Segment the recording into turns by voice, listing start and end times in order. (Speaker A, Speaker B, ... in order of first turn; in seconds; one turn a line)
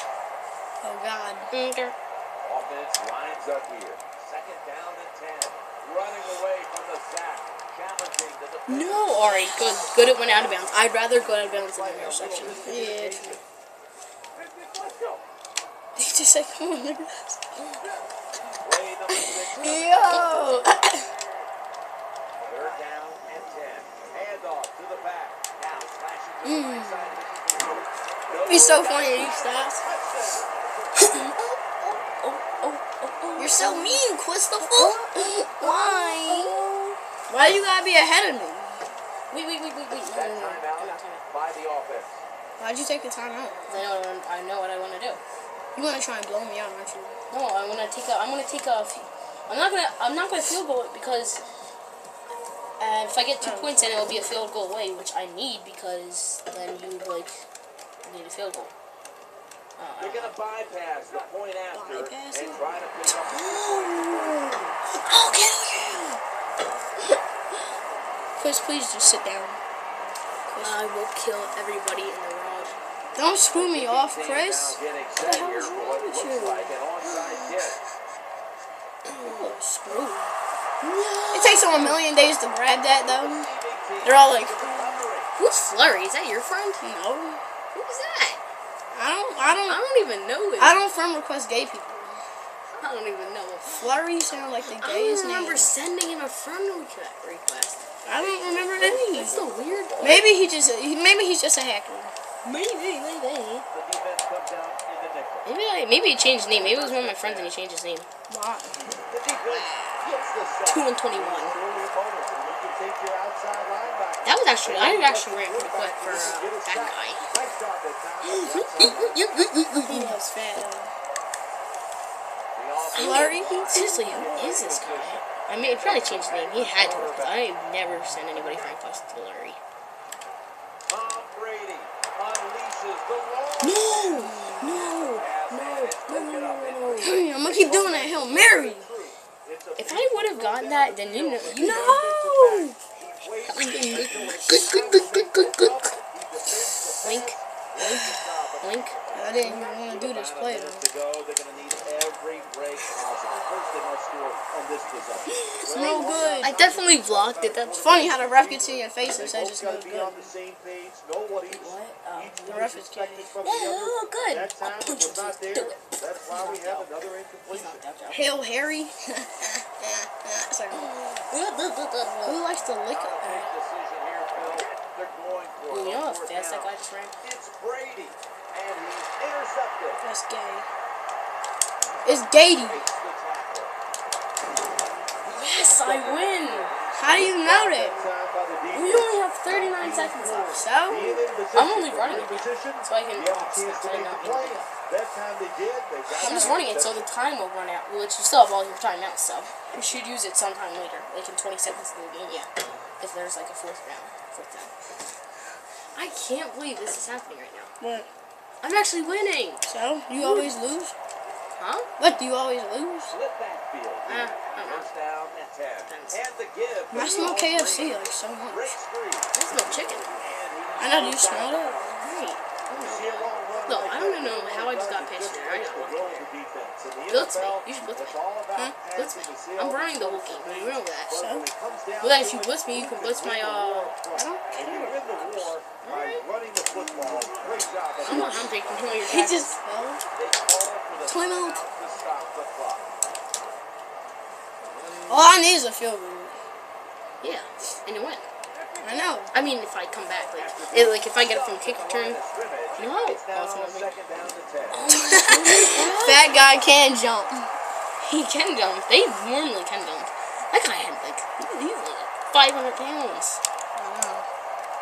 Speaker A: 0.8-1.5
Speaker B: 1.5-1.9
Speaker C: 2.4-10.6
Speaker B: 8.7-12.7
Speaker C: 11.1-13.4
Speaker A: 12.6-13.4
Speaker C: 14.6-15.2
Speaker A: 15.9-17.6
Speaker C: 18.6-20.7
Speaker A: 19.1-21.1
Speaker C: 22.4-31.3
Speaker A: 26.4-27.1
Speaker A: 28.4-29.8
Speaker B: 31.0-34.0
Speaker A: 33.4-36.7
Speaker B: 34.6-37.0
Speaker A: 37.3-38.8
Speaker B: 39.3-41.2
Speaker C: 40.1-42.2
Speaker A: 42.6-43.6
Speaker B: 43.7-45.2
Speaker A: 45.7-47.1
Speaker B: 47.3-51.4
Speaker B: 52.8-57.4
Speaker A: 53.4-53.8
Speaker B: 58.0-58.7
Speaker B: 59.8-60.3
Speaker C: 60.0-64.6
Speaker A: 61.7-63.2
Speaker B: 63.3-66.2
Speaker A: 68.4-69.6
Speaker A: 70.5-70.8
Speaker B: 70.6-72.8
Speaker A: 73.1-76.7
Speaker C: 73.4-77.8
Speaker B: 75.3-75.7
Speaker A: 79.2-80.3
Speaker B: 79.2-79.5
Speaker B: 80.8-82.0
Speaker A: 81.3-83.5
Speaker C: 82.9-85.3
Speaker A: 84.0-85.0
Speaker B: 85.3-86.8
Speaker A: 86.8-87.4
Speaker B: 87.7-88.4
Speaker A: 88.9-89.8
Speaker B: 89.7-90.8
Speaker A: 90.6-92.2
Speaker B: 92.8-94.0
Speaker A: 93.7-95.7
Speaker B: 94.6-97.8
Speaker A: 98.0-99.4
Speaker C: 98.1-100.3
Speaker B: 98.8-100.3
Speaker A: 100.0-102.1
Speaker B: 102.4-103.7
Speaker C: 103.7-105.5
Speaker B: 105.4-108.1
Speaker C: 106.4-107.6
Speaker A: 108.3-108.8
Speaker C: 109.1-119.2
Speaker B: 109.5-110.1
Speaker B: 110.6-111.5
Speaker B: 114.2-117.2
Speaker B: 118.2-120.2
Speaker A: 119.8-120.9
Speaker C: 122.5-128.8
Speaker A: 122.9-124.3
Speaker B: 122.9-129.6
Speaker C: 130.8-167.8
Speaker B: 133.6-137.2
Speaker A: 134.2-134.8
Speaker A: 137.0-138.9
Speaker B: 139.8-142.1
Speaker A: 141.5-142.7
Speaker B: 143.5-145.9
Speaker B: 147.0-147.3
Speaker B: 148.6-149.0
Speaker A: 149.1-150.8
Speaker B: 155.3-157.8
Speaker A: 155.6-156.6
Speaker A: 157.8-160.3
Speaker B: 161.5-162.5
Speaker A: 162.4-163.3
Speaker B: 163.4-166.9
Speaker B: 167.5-168.4
Speaker A: 168.1-170.9
Speaker B: 170.7-172.4
Speaker A: 172.2-173.5
Speaker C: 172.9-180.0
Speaker B: 175.7-177.1
Speaker A: 180.0-180.7
Speaker A: 182.0-182.8
Speaker C: 182.4-183.8
Speaker C: 185.2-197.1
Speaker B: 185.3-186.7
Speaker A: 186.9-188.1
Speaker B: 188.7-190.7
Speaker A: 190.5-191.3
Speaker B: 191.5-194.7
Speaker B: 196.2-202.5
Speaker A: 196.2-196.6
Speaker B: 203.0-204.7
Speaker B: 205.9-207.7
Speaker A: 207.8-208.1
Speaker B: 208.6-210.5
Speaker A: 209.7-210.9
Speaker B: 211.6-211.9
Speaker A: 212.0-213.1
Speaker C: 213.1-222.0
Speaker B: 214.1-214.9
Speaker B: 215.8-216.2
Speaker A: 216.9-218.8
Speaker B: 219.3-220.1
Speaker A: 220.8-222.0
Speaker B: 222.0-226.3
Speaker C: 222.8-239.2
Speaker B: 227.1-228.2
Speaker B: 228.9-231.1
Speaker A: 231.1-231.5
Speaker B: 232.0-233.9
Speaker A: 234.1-235.3
Speaker B: 234.6-236.2
Speaker B: 238.0-239.6
Speaker A: 238.1-238.3
Speaker A: 239.0-240.0
Speaker C: 240.1-242.9
Speaker A: 241.0-241.7
Speaker B: 244.7-245.3
Speaker A: 245.1-246.4
Speaker B: 247.2-248.2
Speaker A: 248.8-249.3
Speaker B: 249.3-252.2
Speaker C: 250.3-254.9
Speaker B: 252.7-253.9
Speaker B: 254.7-256.4
Speaker A: 254.9-257.5
Speaker B: 258.0-263.4
Speaker A: 263.8-264.2